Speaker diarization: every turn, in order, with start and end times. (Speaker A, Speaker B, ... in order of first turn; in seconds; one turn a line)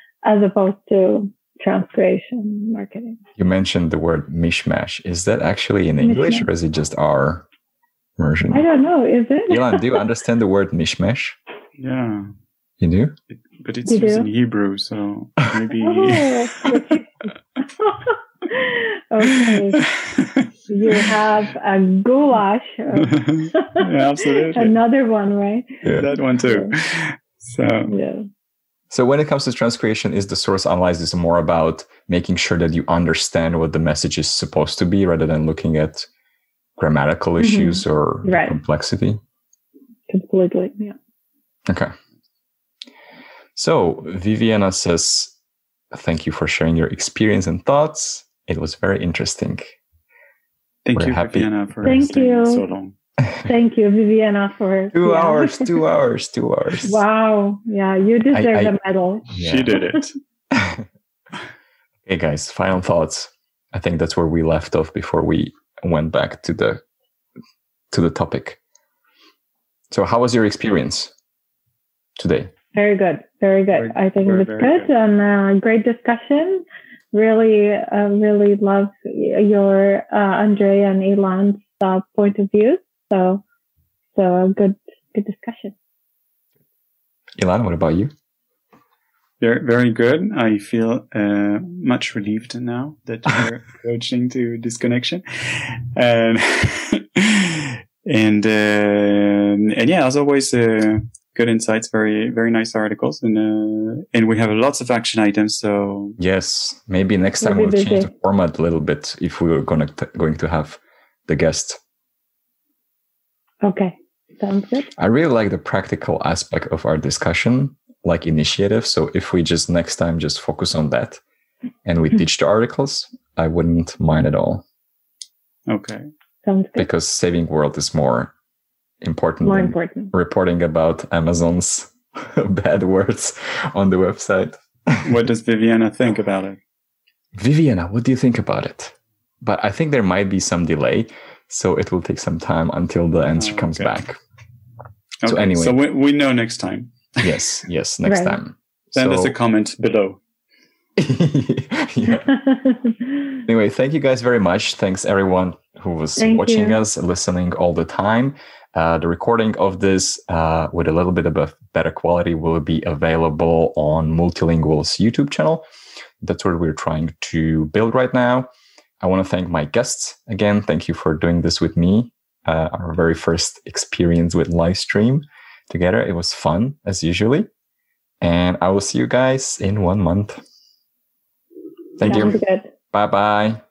Speaker A: 0.2-3.2
Speaker B: 3.4-7.5
Speaker A: 6.0-6.5
Speaker B: 8.2-8.6
Speaker A: 8.5-10.0
Speaker B: 9.5-11.3
Speaker C: 11.8-12.3
Speaker B: 12.8-13.1
Speaker C: 13.5-16.6
Speaker A: 13.9-14.3
Speaker A: 15.8-17.3
Speaker A: 17.8-19.9
Speaker C: 19.7-20.5
Speaker A: 20.7-26.7
Speaker C: 23.0-24.7
Speaker C: 26.0-27.9
Speaker A: 27.9-28.2
Speaker B: 28.9-36.1
Speaker B: 36.8-39.2
Speaker A: 37.4-38.6
Speaker A: 40.1-41.0
Speaker B: 41.7-41.9
Speaker B: 43.5-45.3
Speaker B: 45.9-49.8
Speaker C: 50.8-52.9
Speaker B: 50.9-51.5
Speaker A: 51.8-52.6
Speaker A: 53.4-55.8
Speaker B: 54.9-57.0
Speaker A: 56.8-60.0
Speaker B: 58.3-58.8
Speaker B: 59.3-59.8
Speaker C: 59.4-60.2
Speaker B: 60.5-60.8
Speaker B: 62.0-66.8
Speaker B: 67.9-68.6
Speaker B: 69.9-71.1
Speaker B: 72.2-72.5
Speaker A: 72.7-83.4
Speaker C: 73.7-74.9
Speaker A: 84.1-85.8
Speaker B: 87.4-88.1
Speaker C: 89.4-106.2
Speaker B: 106.2-111.8
Speaker A: 107.4-108.1
Speaker A: 113.6-114.9
Speaker B: 115.0-121.2
Speaker B: 121.8-124.6
Speaker C: 125.7-126.1
Speaker A: 126.4-126.9
Speaker B: 126.8-128.3
Speaker B: 129.0-135.2
Speaker A: 129.4-130.1
Speaker C: 135.0-136.6
Speaker B: 137.3-144.2
Speaker C: 143.3-143.9
Speaker C: 145.2-147.5
Speaker B: 145.2-145.8
Speaker B: 147.2-149.3
Speaker A: 148.0-148.4
Speaker C: 148.9-150.2
Speaker B: 151.0-152.3
Speaker A: 152.2-153.4
Speaker B: 153.5-165.6
Speaker A: 156.2-156.8
Speaker B: 166.2-168.5
Speaker B: 169.0-177.5
Speaker B: 178.2-180.4
Speaker B: 182.0-183.6
Speaker A: 182.0-182.7